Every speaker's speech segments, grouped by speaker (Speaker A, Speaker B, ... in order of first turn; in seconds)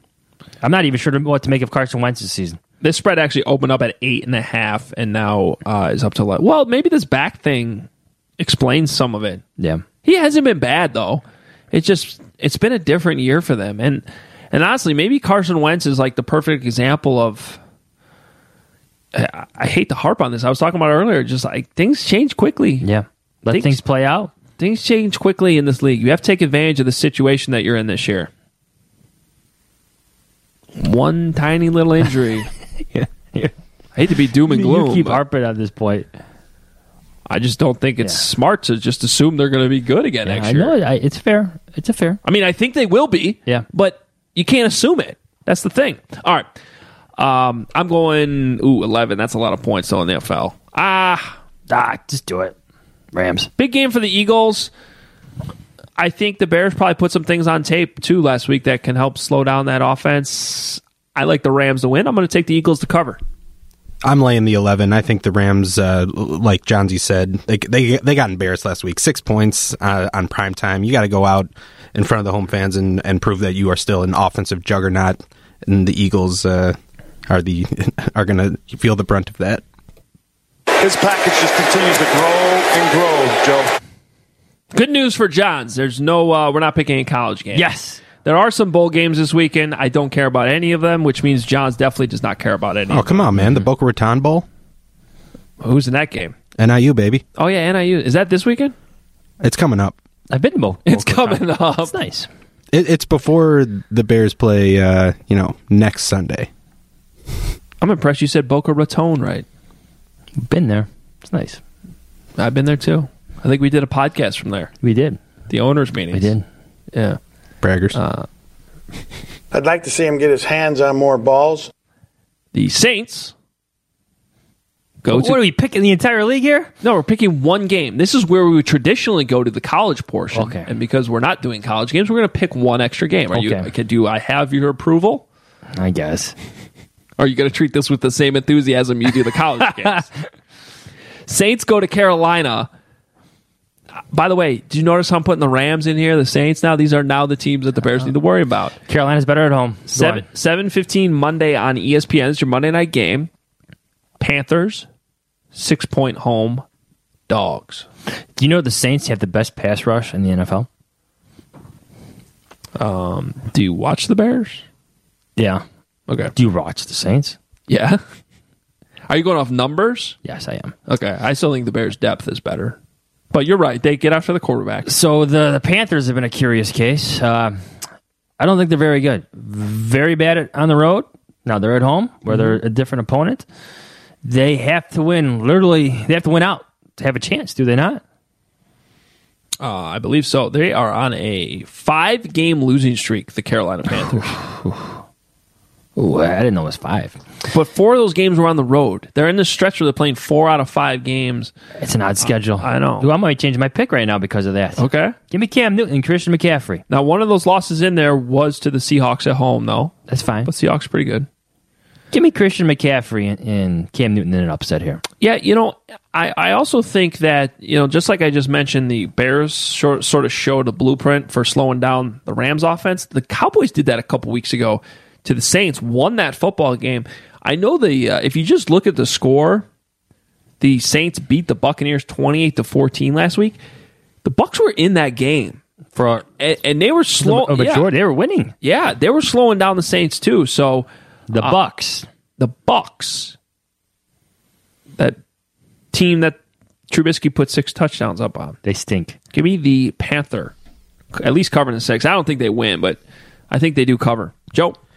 Speaker A: 0.6-2.6, 22.8-24.3, 32.9-33.5, 34.5-36.1, 40.2-42.2, 51.7-52.5, 53.1-53.5, 87.5-88.0, 100.3-102.3, 110.4-111.6, 114.8-115.2, 116.1-116.4, 125.1-126.7, 130.3-130.7, 133.3-133.7, 135.7-136.3, 139.6-140.0, 148.9-150.2, 158.4-160.7, 165.4-165.6, 166.3-167.4, 170.2-170.7, 174.8-177.6, 178.4-183.4, 184.2-188.0, 195.9-197.2, 201.8-206.8, 210.1-210.5, 212.1-215.0, 235.9-236.2, 237.2-238.5, 241.3-242.1, 248.6-249.2
Speaker B: 2.8-7.9, 8.4-9.4, 10.0-17.6, 19.1-22.9, 23.5-23.8, 24.6-28.3, 30.8-32.5, 33.9-35.2, 37.3-40.8, 42.2-46.5, 47.2-51.4, 53.6-54.7, 56.0-63.2, 84.7-93.3, 95.6-96.3, 97.4-98.7, 100.8-102.0, 107.8-109.4, 112.4-114.7, 115.5-116.3, 116.9-117.2, 117.9-118.2, 122.5-123.3, 125.0-125.4, 126.8-135.2, 137.2-140.1, 141.3-142.7, 144.1-148.8, 149.9-153.3, 154.2-154.8, 155.5-156.6, 157.3-157.8, 162.8-164.6, 166.1-166.3, 167.7-168.0, 169.1-170.2, 170.9-172.8, 173.3-174.9, 182.3-182.6, 189.6-194.4, 197.5-201.5, 202.6-203.1, 204.8-205.1, 206.9-211.3, 215.2-229.7, 230.6-233.6, 234.2-235.6, 236.4-237.9, 238.6-240.9, 242.4-243.3, 245.9-246.4, 246.9-248.6, 249.3-250.5, 251.1-254.8
Speaker C: 64.0-76.8, 77.3-79.6, 92.9-94.4, 96.6-97.2, 99.4-99.9, 102.7-106.5, 117.6-118.0
Speaker D: 80.8-83.7
Speaker E: 119.5-121.7